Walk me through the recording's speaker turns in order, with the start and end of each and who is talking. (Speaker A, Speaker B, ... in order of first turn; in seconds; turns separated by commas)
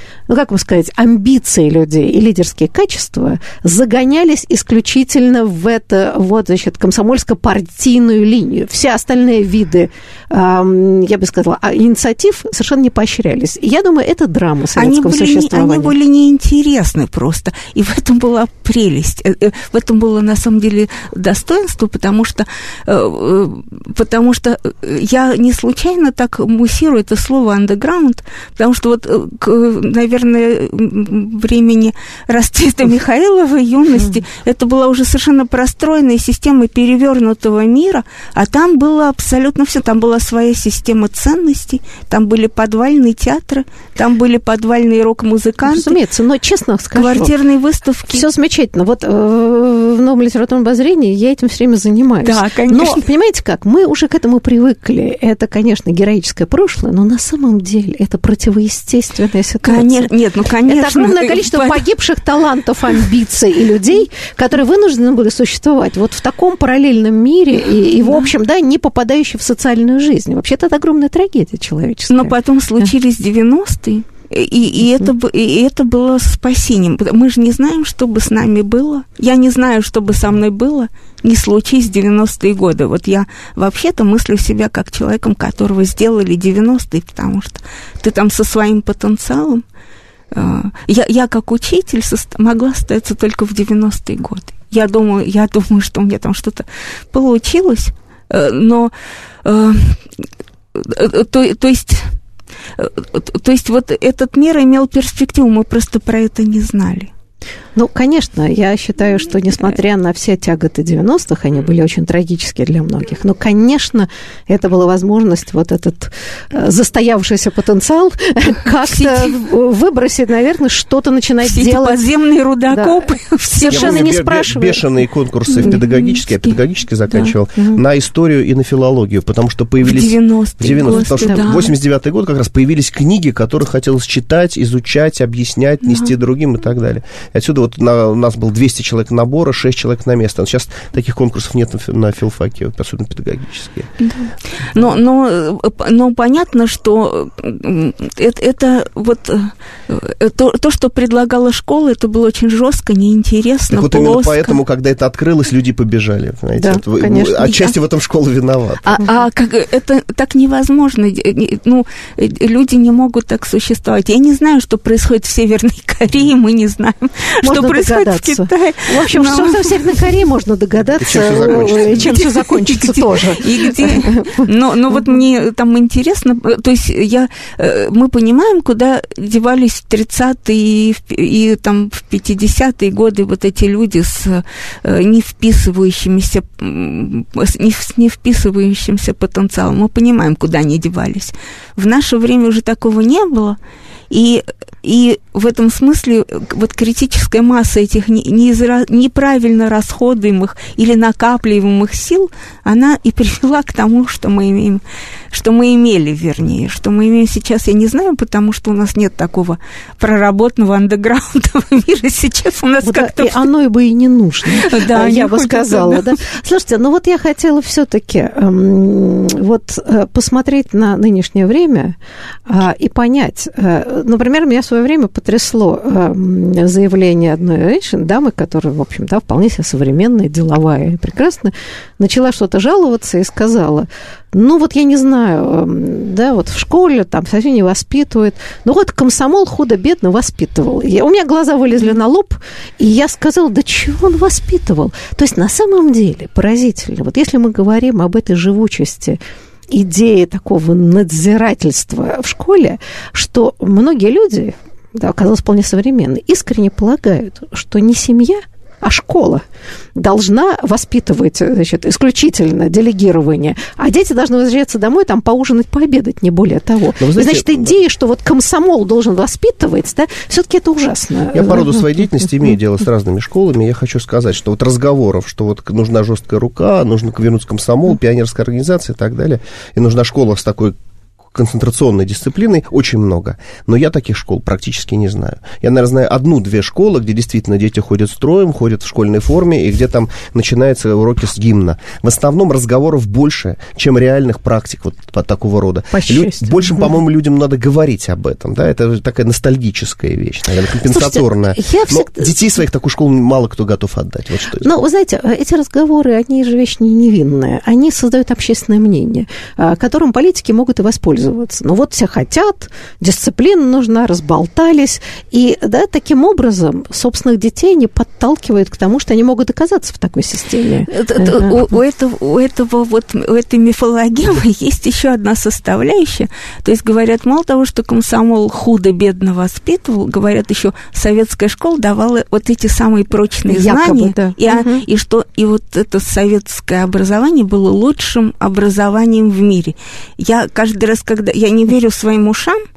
Speaker A: 0.3-15.9, Speaker B: 14.8-46.0, Speaker A: 45.6-47.3, Speaker B: 46.9-48.2, Speaker A: 48.1-60.1, Speaker B: 52.2-53.0, Speaker B: 59.6-61.8, Speaker A: 60.6-72.9, Speaker B: 68.0-68.3, Speaker B: 72.1-89.6, Speaker B: 90.3-98.9, Speaker B: 99.4-100.0, Speaker B: 100.7-102.2, Speaker B: 102.8-107.1, Speaker A: 107.8-122.0, Speaker B: 118.8-119.3, Speaker B: 121.4-124.1, Speaker A: 122.7-124.8, Speaker C: 123.7-143.9, Speaker B: 125.5-126.5, Speaker B: 127.1-127.3, Speaker B: 129.8-131.7, Speaker A: 130.8-131.4, Speaker B: 144.0-154.6, Speaker C: 153.7-159.0, Speaker A: 156.6-157.7, Speaker B: 158.8-170.1, Speaker A: 167.4-174.9, Speaker C: 171.0-172.2, Speaker B: 171.1-193.6, Speaker B: 194.1-213.5, Speaker A: 212.8-221.9, Speaker B: 214.5-216.2, Speaker A: 222.5-249.2, Speaker A: 249.7-259.4, Speaker A: 259.9-271.8, Speaker C: 267.0-267.7, Speaker C: 271.3-280.8, Speaker C: 281.3-304.7, Speaker A: 295.9-296.9, Speaker A: 300.9-302.3, Speaker A: 304.6-321.7, Speaker B: 320.9-342.6, Speaker A: 333.5-334.8